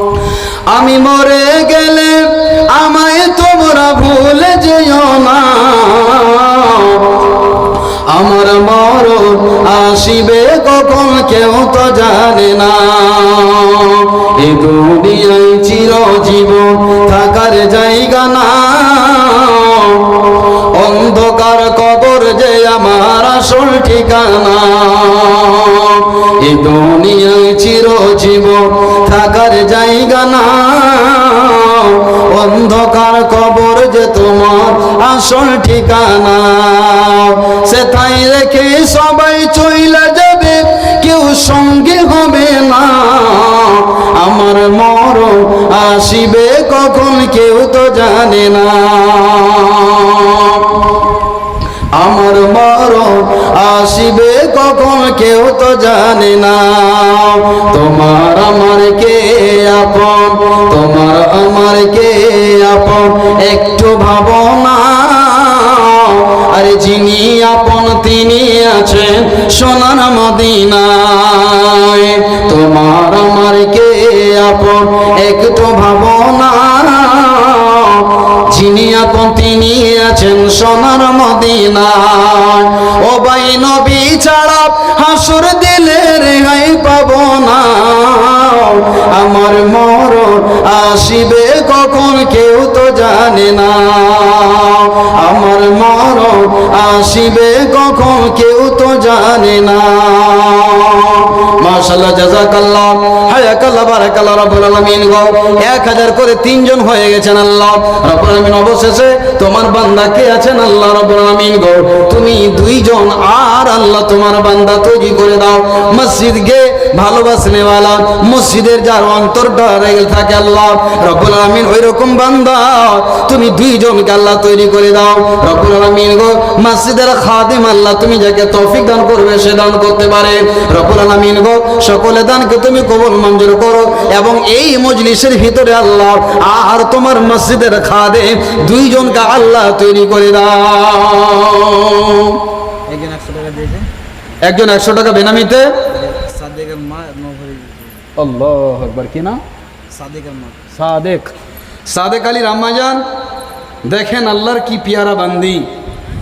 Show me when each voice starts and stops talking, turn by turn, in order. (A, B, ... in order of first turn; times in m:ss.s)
0:00.7-0:07.2 A
0:08.1-0:50.9 A
0:51.9-2:22.4 A
2:22.8-2:23.9 B
2:24.4-2:25.8 A
2:25.9-2:28.0 B
2:28.2-2:29.4 A
2:29.9-2:30.7 B
2:30.7-2:31.3 A
2:31.8-2:33.0 A
2:33.8-2:35.7 A